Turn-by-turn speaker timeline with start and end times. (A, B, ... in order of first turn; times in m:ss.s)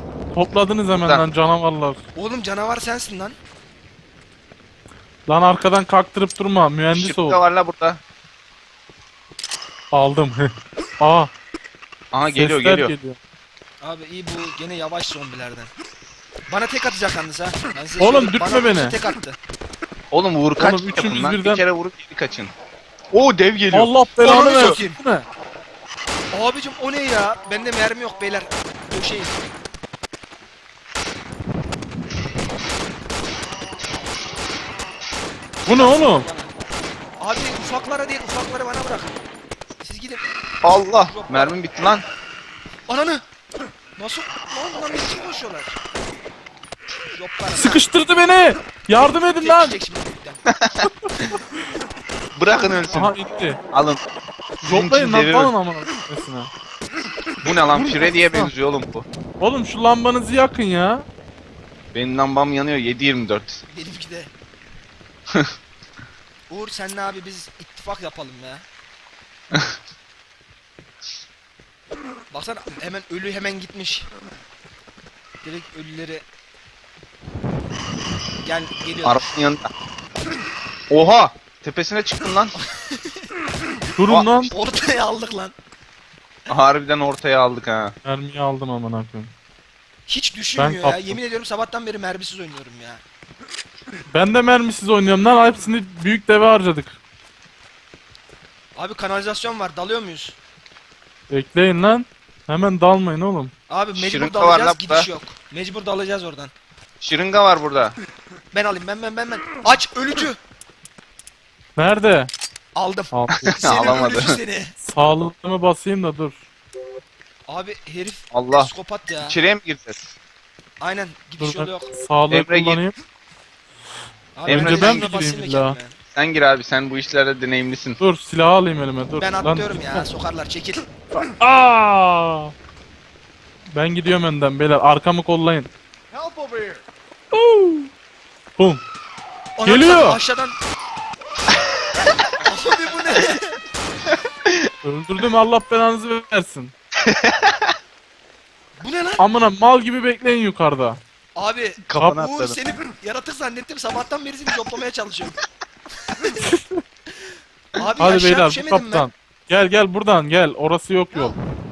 0:00.3-0:02.0 A
0:02.1-0:03.4 B
0:05.3-0:07.4 A
0:06.9-0:08.0 C
0:09.9-0:11.3 A
0:12.1-0:12.9 C
0:12.3-0:13.2 A
0:13.8-0:15.7 B
0:16.5-0:19.4 B
0:18.0-0:19.0 A
0:20.1-0:22.5 C
0:20.6-0:21.6 A
0:23.1-0:24.8 C
0:23.7-0:25.2 A
0:24.2-0:25.0 B
0:26.3-0:29.3 B
0:35.6-0:36.2 A
0:35.6-0:36.5 B
0:37.2-0:39.2 B
0:39.8-0:40.2 B
0:40.6-0:42.0 C
0:41.0-0:41.5 B
0:42.9-0:43.2 B
0:44.0-0:45.8 B
0:47.1-0:47.9 B
0:47.5-0:49.8 A
0:49.4-0:50.4 B
0:50.5-0:51.3 C
0:50.8-0:51.4 A
0:52.4-0:53.1 C
0:52.9-0:53.6 A
0:53.7-0:54.0 C
0:54.6-0:55.5 C
0:54.6-0:56.5 A
0:57.4-0:59.0 C
0:57.7-0:58.5 A
0:59.4-1:01.0 A
1:01.9-1:03.6 C
1:03.7-1:04.3 B
1:06.5-1:08.6 B
1:12.3-1:14.1 B
1:15.4-1:16.2 B
1:18.4-1:19.4 B
1:19.0-1:19.7 C
1:20.9-1:22.5 C
1:22.6-1:23.3 B
1:24.0-1:24.5 A
1:24.1-1:24.5 C
1:24.5-1:25.5 B
1:26.5-1:27.9 C
1:28.0-1:29.3 A
1:30.1-1:33.0 B
1:30.6-1:31.2 A
1:34.1-1:37.0 A
1:38.8-1:40.4 B
1:41.3-1:43.5 A
1:43.7-1:46.5 B
1:43.9-1:45.1 C
1:47.0-1:48.0 C
1:48.5-1:50.4 B
1:51.8-1:52.3 A
1:52.8-1:54.7 B
1:53.1-1:53.8 A
1:53.4-1:54.4 C
1:54.8-1:56.4 A
1:57.5-1:59.4 B
1:58.3-1:58.7 C
1:59.2-2:00.0 C
2:00.8-2:01.9 B
2:01.4-2:02.9 A
2:02.3-2:02.8 C
2:04.4-2:06.0 B
2:04.5-2:05.1 C
2:04.5-2:05.8 A
2:06.1-2:08.0 C
2:08.0-2:10.1 A
2:09.2-2:10.9 B
2:11.1-2:12.5 A
2:13.7-2:15.7 A
2:17.3-2:17.9 A
2:19.6-2:20.6 B
2:19.6-2:20.2 A
2:22.4-2:23.6 B
2:24.8-2:26.7 A
2:27.0-2:27.7 C
2:28.8-2:29.3 B
2:29.2-2:31.0 A
2:31.4-2:35.4 B
2:31.8-2:32.6 C
2:32.0-2:32.2 A
2:36.4-2:36.8 A
2:37.8-2:39.1 B
2:38.0-2:41.4 A